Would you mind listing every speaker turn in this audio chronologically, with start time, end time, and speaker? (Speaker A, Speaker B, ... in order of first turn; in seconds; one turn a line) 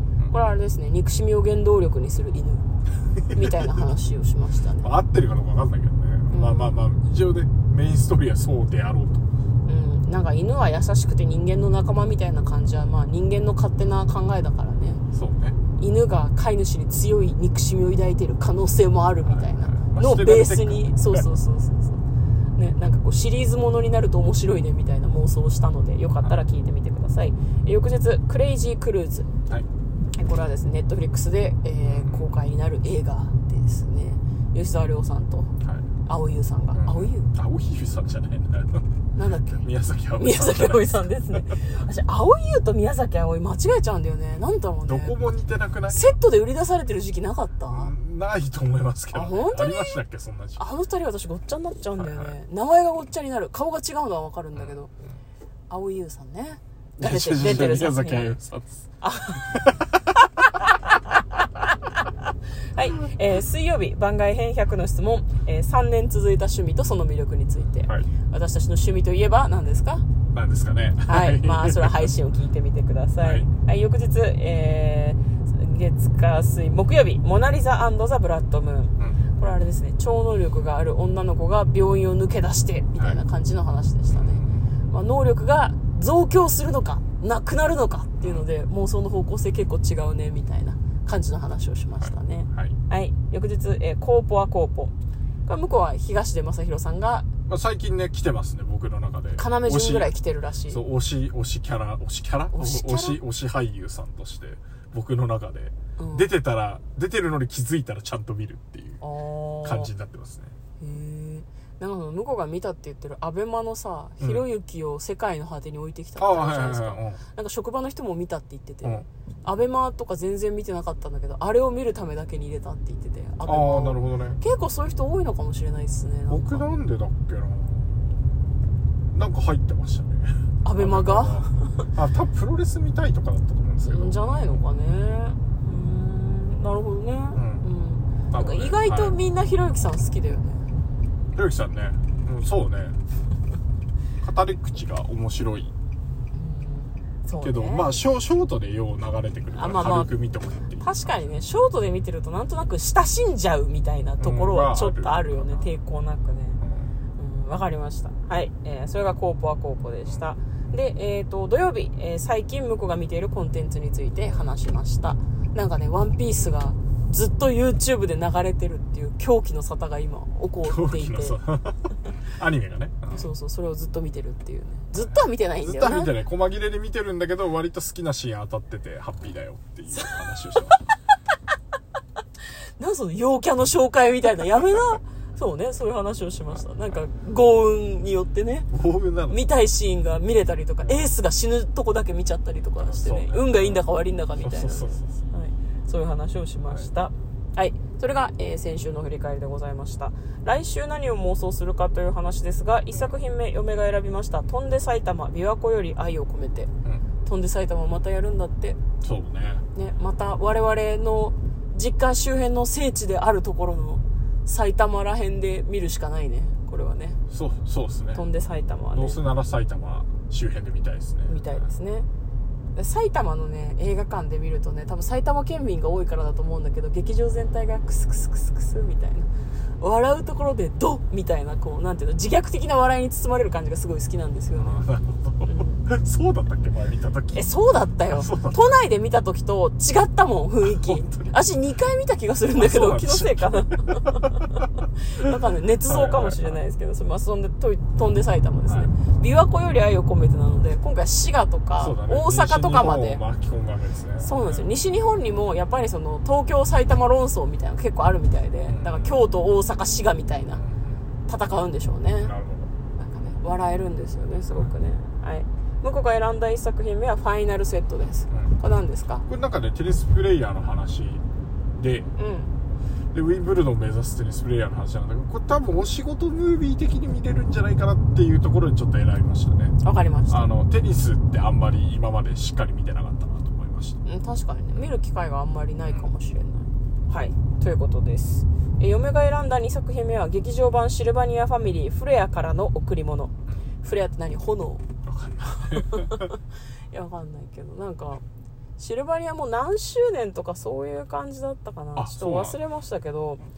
Speaker A: 0.3-2.7
Speaker B: 3.2-3.6
Speaker A: 3.3-4.9
Speaker B: 4.8-9.3
Speaker A: 6.3-6.8
Speaker A: 9.7-15.0
Speaker B: 15.1-15.6
Speaker A: 15.8-22.0
Speaker B: 19.2-21.3
Speaker A: 22.6-29.4
Speaker A: 30.2-35.5
Speaker B: 31.8-32.3
Speaker A: 36.1-37.3
Speaker B: 36.8-38.9
Speaker A: 39.1-45.2
Speaker B: 39.6-41.0
Speaker B: 44.9-46.1
Speaker A: 45.9-47.9
Speaker B: 47.7-50.6
Speaker A: 49.1-50.0
Speaker A: 50.6-54.9
Speaker B: 52.0-52.3
Speaker A: 55.7-58.3
Speaker B: 57.0-60.0
Speaker A: 59.0-59.7
Speaker A: 60.6-61.0
Speaker A: 61.6-62.1
Speaker A: 62.7-70.1
Speaker B: 70.3-72.1
Speaker A: 71.1-94.9
Speaker B: 73.2-73.5
Speaker B: 84.1-84.7
Speaker B: 88.2-88.5
Speaker B: 92.0-92.8
Speaker A: 95.5-97.2
Speaker B: 97.5-100.1
Speaker A: 99.4-100.8
Speaker B: 100.7-109.0
Speaker A: 102.5-103.2
Speaker A: 106.0-106.3
Speaker A: 109.0-109.9
Speaker B: 109.6-110.5
Speaker A: 110.8-126.6
Speaker B: 114.2-114.5
Speaker B: 116.2-117.2
Speaker B: 123.4-124.4
Speaker B: 126.3-128.0
Speaker B: 129.1-134.7
Speaker A: 130.6-131.9
Speaker A: 133.8-140.7
Speaker B: 137.3-137.7
Speaker B: 138.3-139.2
Speaker B: 141.3-143.0
Speaker B: 144.2-145.7
Speaker A: 146.3-148.0
Speaker B: 147.4-151.3
Speaker A: 149.5-150.1
Speaker A: 150.8-156.6
Speaker B: 154.2-155.7
Speaker B: 156.6-156.9
Speaker A: 157.2-171.4
Speaker B: 170.6-173.3
Speaker A: 173.1-176.2
Speaker B: 175.6-180.8
Speaker A: 182.8-188.7
Speaker B: 188.7-189.5
Speaker A: 189.3-206.7
Speaker B: 192.8-195.2
Speaker A: 207.2-208.8
Speaker B: 209.0-209.6
Speaker A: 209.7-217.2
Speaker B: 217.3-218.2
Speaker A: 218.1-219.2
Speaker B: 218.9-221.7
Speaker A: 221.3-222.1
Speaker A: 222.8-229.3
Speaker A: 229.8-234.9
Speaker B: 234.6-237.5
Speaker A: 235.4-235.8
Speaker A: 237.3-253.2
Speaker B: 238.1-238.7
Speaker B: 240.7-241.3
Speaker B: 242.5-244.3
Speaker B: 245.8-246.6
Speaker B: 248.7-248.9
Speaker B: 251.8-254.7
Speaker A: 254.2-260.6
Speaker B: 258.7-259.2
Speaker B: 260.5-261.0
Speaker A: 261.3-262.3
Speaker B: 262.2-262.7
Speaker A: 262.9-269.2
Speaker B: 268.3-268.6
Speaker B: 269.2-271.2
Speaker B: 271.8-272.1
Speaker A: 272.2-272.5
Speaker B: 273.1-279.8
Speaker A: 279.8-280.5
Speaker B: 280.3-284.0
Speaker A: 284.0-294.9
Speaker B: 295.0-296.3
Speaker A: 295.6-296.3
Speaker A: 296.9-298.2
Speaker A: 298.8-303.4
Speaker B: 301.9-302.6